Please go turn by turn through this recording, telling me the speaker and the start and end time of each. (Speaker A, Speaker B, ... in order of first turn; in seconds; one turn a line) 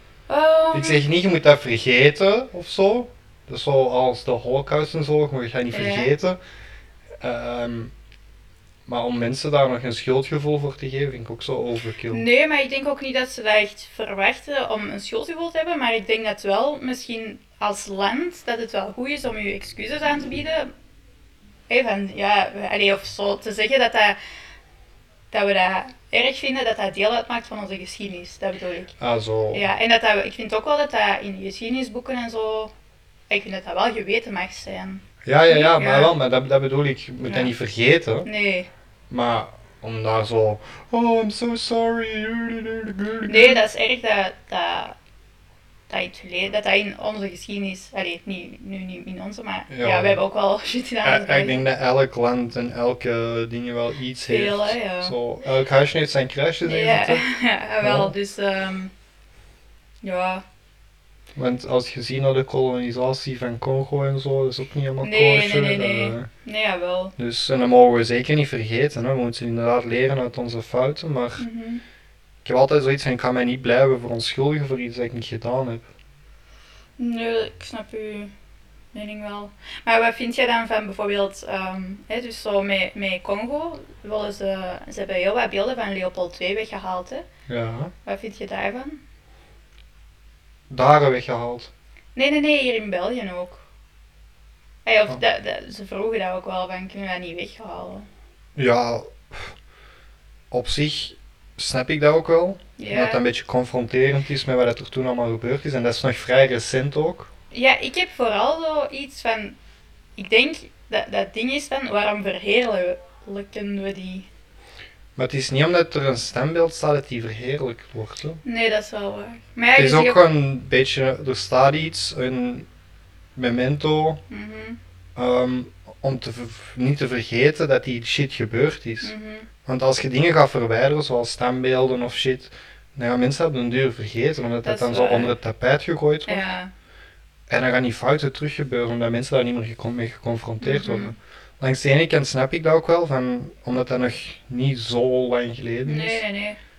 Speaker A: 0.3-1.0
Speaker B: 0.7-6.4
Speaker A: 5.7-6.1
Speaker B: 7.2-7.9
Speaker B: 8.9-12.2
Speaker A: 12.1-20.7
Speaker A: 21.7-24.2
Speaker A: 25.3-28.9
Speaker B: 29.0-29.6
Speaker A: 29.5-32.7
Speaker A: 33.3-36.1
Speaker B: 35.2-38.3
Speaker A: 37.2-37.5
Speaker A: 38.2-38.7
Speaker B: 39.1-43.6
Speaker A: 43.3-45.0
Speaker A: 45.9-51.6
Speaker B: 49.7-50.2
Speaker B: 51.0-57.2
Speaker A: 54.3-55.2
Speaker A: 56.7-58.9
Speaker B: 57.8-58.1
Speaker A: 60.0-60.4
Speaker B: 61.4-66.3
Speaker A: 65.0-67.1
Speaker B: 67.2-71.5
Speaker A: 71.4-71.8
Speaker B: 72.4-75.9
Speaker A: 77.0-78.3
Speaker A: 78.9-87.2
Speaker B: 87.5-87.9
Speaker A: 88.1-89.0
Speaker B: 90.7-91.7
Speaker A: 92.2-93.6
Speaker A: 94.8-98.1
Speaker B: 98.6-99.5
Speaker B: 100.5-107.3
Speaker A: 102.8-103.2
Speaker A: 107.5-109.6
Speaker A: 110.2-114.3
Speaker B: 115.2-118.4
Speaker A: 118.4-120.2
Speaker B: 119.7-122.7
Speaker B: 123.4-124.2
Speaker A: 124.3-124.8
Speaker B: 125.2-129.1
Speaker A: 129.0-129.5
Speaker B: 129.7-136.5
Speaker A: 134.6-135.3
Speaker A: 136.3-136.7
Speaker B: 137.5-146.2
Speaker A: 140.6-141.2
Speaker A: 145.8-146.6